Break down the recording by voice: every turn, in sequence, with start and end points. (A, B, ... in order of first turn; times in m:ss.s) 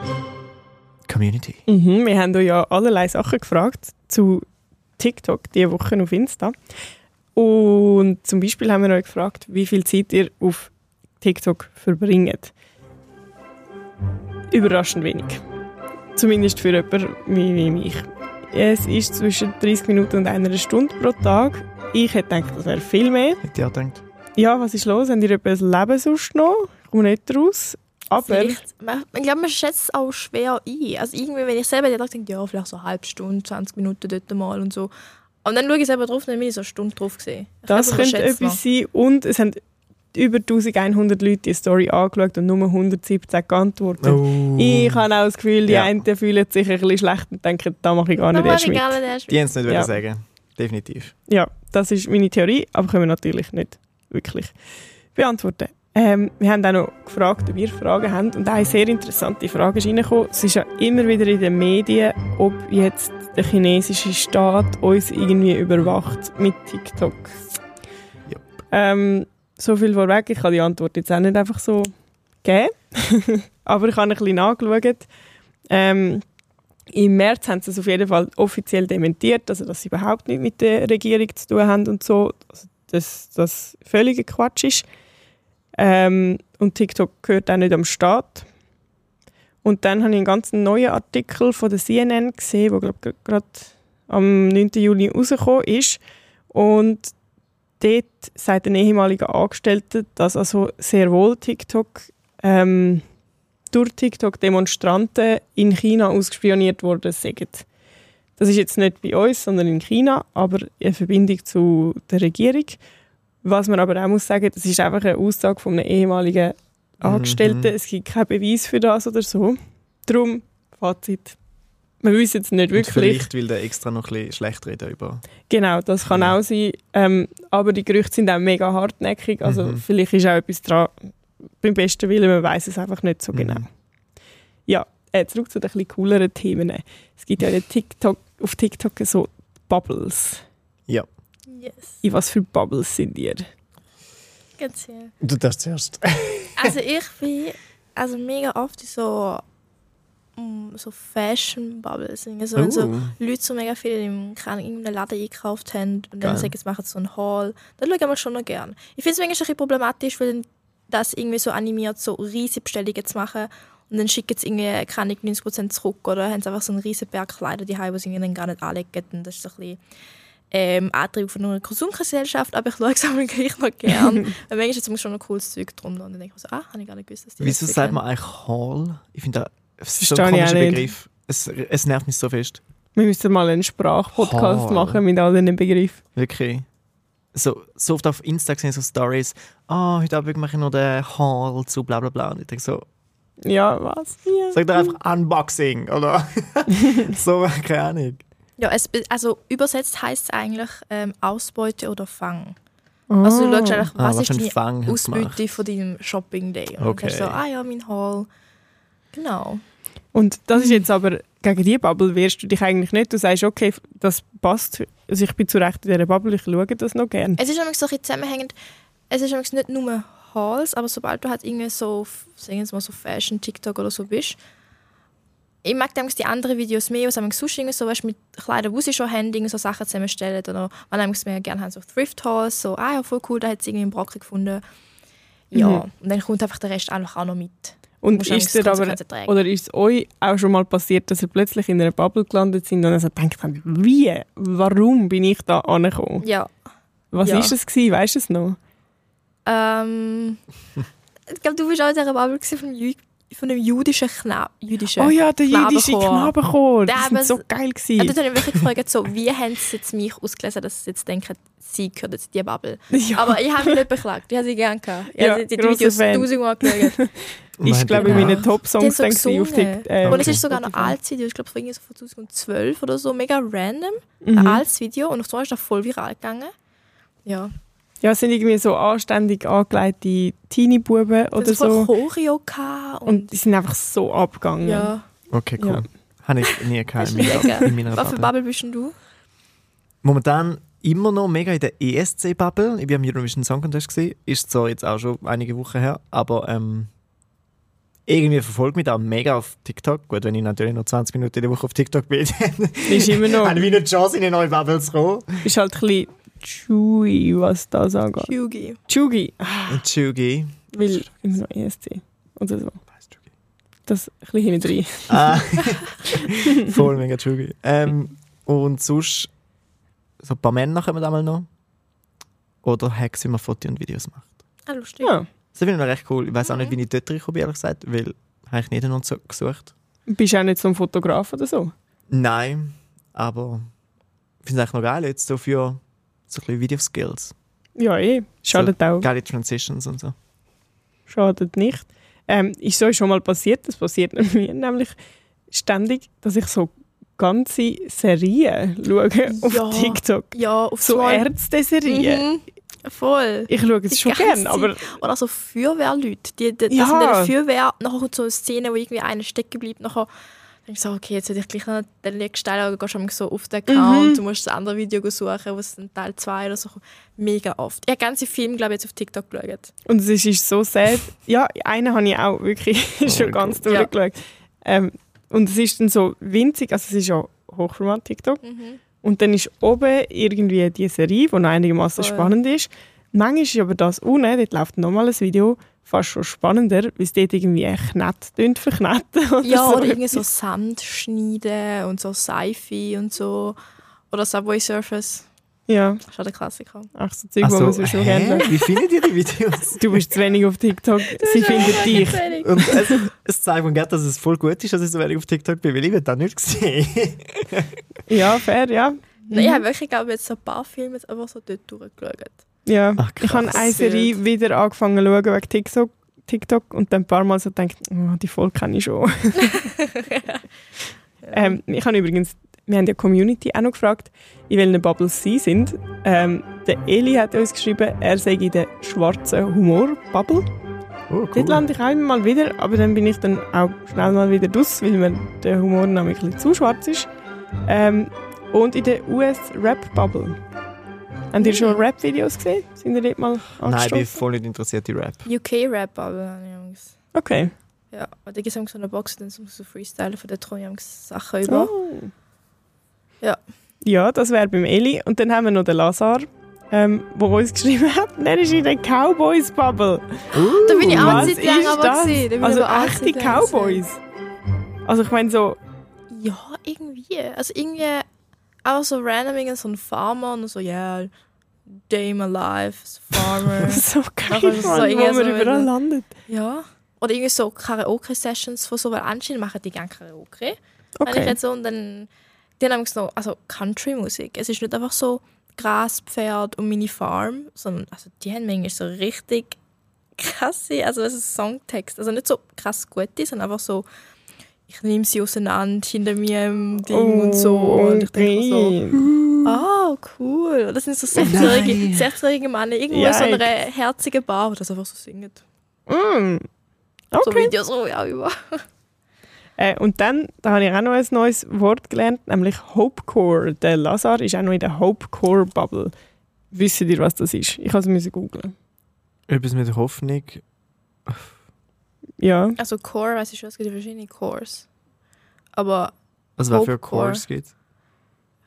0:01.1-0:01.6 A
0:01.7-0:04.4 B
0:05.0-0:06.5 B
0:07.3-0:12.5 B
0:14.5-0:15.4 B
0:16.1-0:23.4 B
0:23.4-0:24.0 A
0:24.4-0:28.6 B
0:28.1-0:34.9 C
0:35.4-0:38.6 C
0:37.7-0:39.6 B
0:40.1-0:49.0 B
0:44.0-0:45.0 A
0:45.6-0:46.0 A
0:48.2-0:49.4 C
0:49.3-0:51.1 A
0:51.3-0:54.5 B
0:55.1-1:07.4 B
1:08.3-1:08.6 A
1:08.7-1:11.9 B
1:12.4-1:15.1 B
1:15.7-1:16.2 B
1:16.9-1:24.8 B
1:25.8-1:28.4 B
1:29.6-1:36.0 B
1:36.5-1:37.1 B
1:37.8-1:43.0 B
1:43.7-1:47.6 B
1:48.4-1:52.8 B
1:53.4-2:01.3 B
1:57.0-1:57.7 A
2:02.0-2:03.3 B
2:02.7-2:05.2 A
2:05.5-2:11.0 B
2:06.1-2:06.4 A
2:09.4-2:09.8 A
2:11.6-2:13.7 B
2:13.3-2:13.6 A
2:14.7-2:20.4 B
2:21.5-2:22.0 C
2:22.0-2:23.5 B
2:24.6-2:25.1 C
2:25.2-2:26.7 A
2:26.6-2:29.4 C
2:30.4-2:49.8 C
2:32.6-2:33.2 A
2:36.2-2:36.5 A
2:50.5-2:58.0 C
2:57.4-3:02.6 A
3:00.0-3:00.9 B
3:02.9-3:06.0 B
3:04.1-3:05.0 A
3:06.1-3:06.6 A
3:07.3-3:12.8 A
3:13.4-3:14.9 B
3:14.5-3:18.2 A
3:18.6-3:22.6 C
3:23.1-3:23.9 B
3:23.2-3:28.3 C
3:24.0-3:25.4 A
3:26.8-3:27.4 A
3:29.1-3:29.6 C
3:30.1-3:37.4 B
3:30.6-3:30.8 C
3:37.4-3:38.5 C
3:39.1-3:44.4 C
3:45.6-3:54.6 C
3:55.5-3:59.4 C
3:55.5-3:55.8 B
3:58.0-4:06.2 B
4:06.2-4:06.5 C
4:07.1-4:08.6 B
4:07.2-4:07.6 C
4:09.4-4:10.4 C
4:11.3-4:16.3 C
4:15.0-4:18.2 B
4:16.8-4:17.4 C
4:18.0-4:27.0 C
4:22.9-4:23.7 B
4:25.2-4:30.9 B
4:27.6-4:28.5 A
4:28.0-4:36.5 C
4:30.0-4:30.4 A
4:34.2-4:34.6 B
4:37.2-4:37.5 C
4:38.0-4:41.9 B
4:41.3-4:43.4 C
4:43.0-4:44.9 B
4:44.6-4:45.0 C
4:45.3-4:48.3 A
4:45.6-4:45.8 B
4:47.0-4:48.9 C
4:50.0-4:56.9 A
4:58.1-5:05.4 A
5:02.9-5:03.6 B
5:05.4-5:08.3 B
5:08.2-5:08.8 C
5:08.9-5:09.8 B
5:09.7-5:11.0 A
5:10.7-5:12.8 B
5:13.9-5:15.4 B
5:15.1-5:19.3 A
5:20.2-5:21.5 A
5:22.6-5:24.3 A
5:24.7-5:25.2 C
5:25.5-5:29.7 A
5:26.5-5:26.7 C
5:30.1-5:31.7 B
5:32.1-5:33.6 A
5:34.4-5:37.3 A
5:37.8-5:39.1 B
5:38.5-5:40.1 A
5:41.1-5:44.9 B
5:45.5-5:52.2 B
5:49.3-5:51.3 C
5:51.8-6:00.1 C
5:53.5-5:54.9 B
5:56.7-5:57.3 B
6:00.6-6:09.7 C
6:03.7-6:04.2 B
6:09.9-6:18.4 B
6:13.0-6:13.7 A
6:13.6-6:13.9 C
6:18.4-6:18.8 C
6:19.0-6:30.2 B
6:22.0-6:22.3 C
6:29.4-6:33.6 C
6:34.1-6:35.3 C
6:35.7-6:36.0 B
6:36.0-6:36.9 C
6:36.9-6:38.5 B
6:37.4-6:40.0 A
6:39.8-6:42.8 B
6:41.1-6:43.0 C
6:42.1-6:47.8 A
6:48.1-6:49.6 B
6:49.3-6:52.4 C
6:52.6-6:59.6 B
6:53.0-6:53.7 A
6:53.5-6:54.1 C
7:00.0-7:00.4 C
7:01.2-7:01.6 C
7:01.3-7:10.5 B
7:11.1-7:11.6 A
7:11.3-7:17.1 B
7:17.6-7:20.4 B
7:21.3-7:24.2 B
7:21.4-7:21.8 C
7:23.6-7:25.2 A
7:25.2-7:27.0 C
7:27.1-7:27.5 B
7:27.9-7:31.7 C
7:31.5-7:32.1 B
7:33.8-7:40.3 B
7:40.3-7:41.5 A
7:40.6-7:43.8 C
7:40.8-7:44.0 B
7:44.8-7:45.6 B
7:46.1-7:48.0 C
7:48.6-7:51.1 C
7:51.8-7:55.7 C
7:53.6-7:56.1 B
7:56.3-8:02.1 C
8:01.0-8:01.4 B
8:02.6-8:09.6 C
8:10.2-8:13.8 C
8:14.7-8:18.8 C
8:16.9-8:19.0 B
8:19.4-8:25.4 C
8:21.2-8:22.1 A
8:22.9-8:23.5 B
8:25.9-8:26.5 B
8:27.1-8:27.5 B
8:27.2-8:28.6 C
8:29.6-8:35.9 B
8:36.5-8:38.5 B
8:39.3-8:40.4 A
8:41.0-8:41.3 A
8:42.2-8:42.6 B
8:42.6-8:44.7 C
8:45.6-8:45.9 C
8:46.4-8:47.5 A
8:46.5-8:47.2 C